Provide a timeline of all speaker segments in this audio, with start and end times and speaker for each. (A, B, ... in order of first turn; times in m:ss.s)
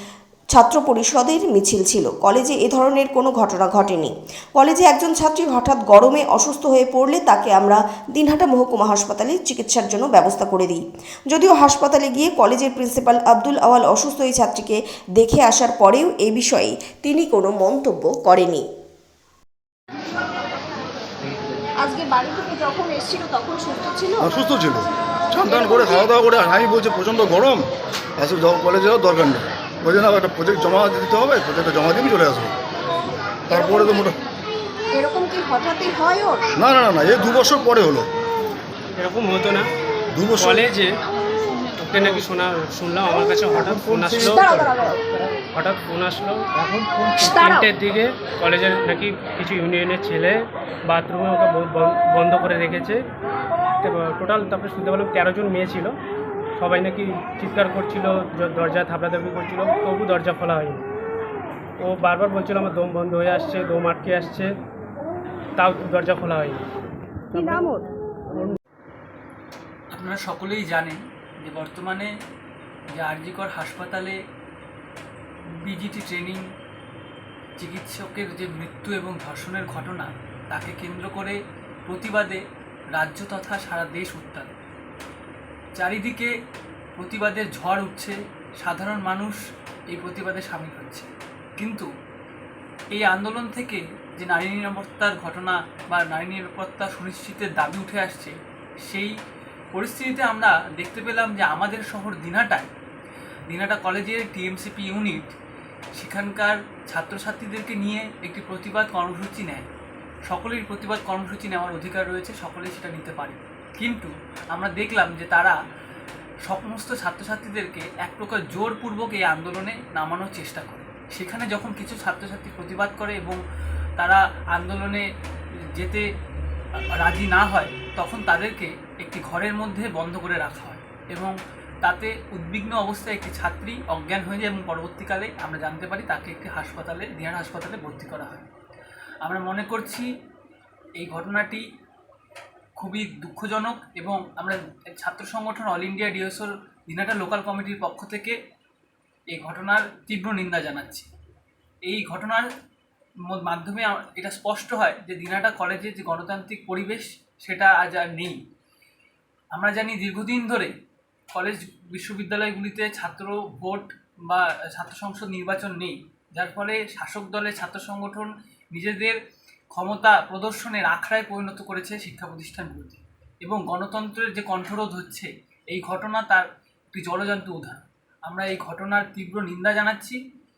0:00.5-0:18.6 A
0:21.8-0:24.3 B
0:24.2-0:32.5 C
0:25.3-0:26.1 B
0:33.5-0:34.1 B
0:33.5-0:34.1 C
0:34.9-0:36.4 B
0:36.6-0:38.1 C
0:39.0-0:39.7 D
0:40.1-0:40.7 C
0:40.4-0:40.9 D
0:41.8-0:44.4 D
0:43.3-0:44.9 C
0:44.1-0:45.0 B
0:45.5-0:50.4 D
0:47.1-0:47.7 B
0:50.9-0:53.0 D
0:53.8-0:55.9 D
0:56.6-1:00.8 D
1:01.8-1:04.5 D
1:05.6-1:06.6 D
1:07.3-1:07.7 D
1:09.9-1:12.1 E
1:13.0-1:14.2 E
1:15.6-1:16.4 E
1:17.6-1:22.4 E
1:23.0-1:24.5 E
1:25.8-1:26.3 E
1:27.0-1:29.4 E
1:29.9-1:31.9 E
1:32.9-1:38.4 E
1:38.9-1:39.1 E
1:39.7-1:42.7 E
1:43.5-1:45.3 E
1:46.0-1:49.7 E
1:50.3-1:55.6 E
1:56.4-2:03.4 E
2:04.0-2:05.0 E
2:05.8-2:06.0 E
2:06.9-2:18.4 E
2:19.2-2:20.1 E
2:21.0-2:21.6 E
2:22.8-2:28.4 E
2:29.3-2:31.1 E
2:31.9-2:32.4 E
2:33.3-2:38.4 E
2:39.5-2:40.7 E
2:41.3-2:49.2 E
2:49.7-3:00.2 E